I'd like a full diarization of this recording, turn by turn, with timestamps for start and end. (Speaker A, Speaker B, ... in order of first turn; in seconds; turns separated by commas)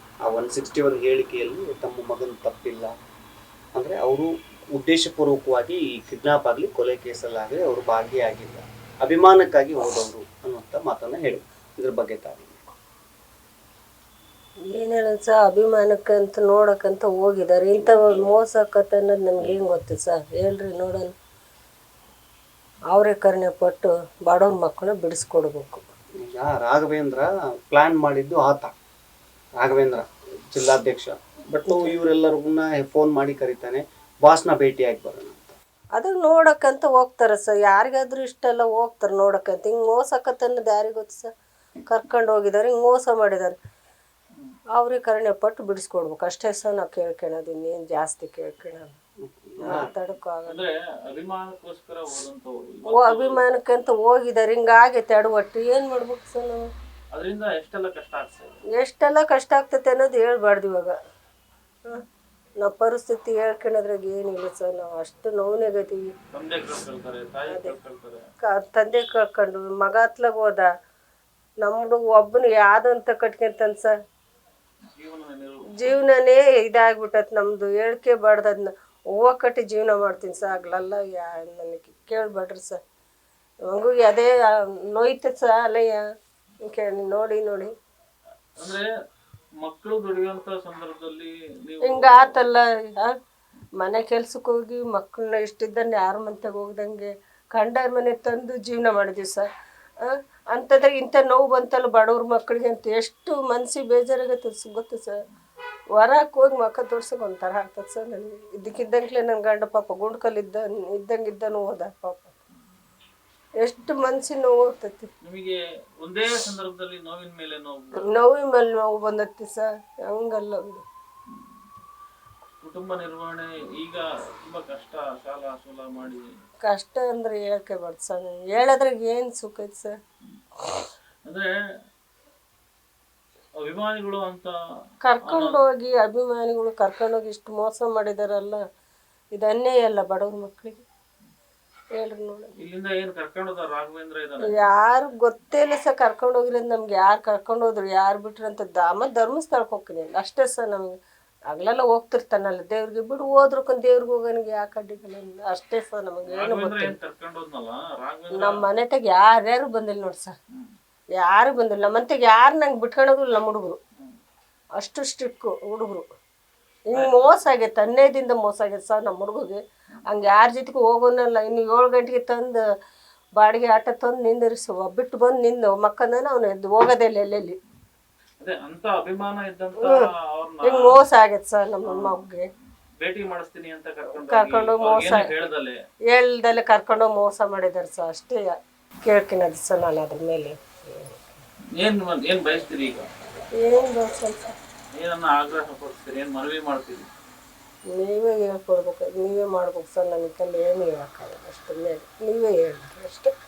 Speaker A: 0.2-2.9, Speaker A: 3.8-12.6, Speaker B: 14.7-21.1, Speaker C: 17.8-18.3, Speaker B: 22.9-25.8, Speaker A: 26.2-28.7, Speaker A: 29.6-35.6, Speaker B: 31.7-31.9, Speaker B: 36.0-41.3, Speaker B: 41.9-43.6, Speaker B: 44.8-49.0, Speaker A: 49.4-49.9, Speaker B: 49.6-50.6, Speaker C: 50.5-53.4, Speaker B: 52.9-56.6, Speaker C: 57.1-58.6, Speaker B: 58.7-61.0, Speaker B: 62.6-66.1, Speaker C: 66.3-68.2, Speaker B: 67.5-67.7, Speaker B: 68.4-70.7, Speaker B: 71.6-73.9, Speaker C: 75.0-75.9, Speaker B: 75.8-82.8, Speaker B: 83.7-84.3, Speaker B: 84.9-86.0, Speaker B: 86.7-87.7, Speaker C: 88.6-88.9, Speaker C: 89.6-92.4, Speaker B: 91.8-93.1, Speaker B: 93.8-99.5, Speaker B: 100.0-105.2, Speaker B: 106.0-112.3, Speaker B: 113.6-115.1, Speaker C: 115.2-118.0, Speaker B: 118.0-120.8, Speaker C: 122.6-126.2, Speaker B: 126.6-129.9, Speaker C: 131.2-131.5, Speaker C: 133.6-134.5, Speaker B: 135.0-138.6, Speaker C: 135.2-135.6, Speaker B: 139.3-140.8, Speaker B: 141.9-142.5, Speaker C: 142.6-144.7, Speaker B: 144.5-150.9, Speaker B: 151.5-156.9, Speaker C: 156.3-158.7, Speaker B: 158.3-160.3, Speaker B: 161.2-163.8, Speaker B: 164.8-166.1, Speaker B: 166.9-172.6, Speaker C: 166.9-167.3, Speaker B: 173.4-177.6, Speaker C: 178.4-181.0, Speaker B: 179.8-180.1, Speaker B: 180.6-182.5, Speaker C: 181.9-182.2, Speaker C: 183.0-185.8, Speaker B: 184.1-185.3, Speaker B: 186.1-191.4, Speaker C: 191.7-193.1, Speaker B: 193.6-194.5, Speaker C: 194.9-197.1, Speaker B: 197.9-203.3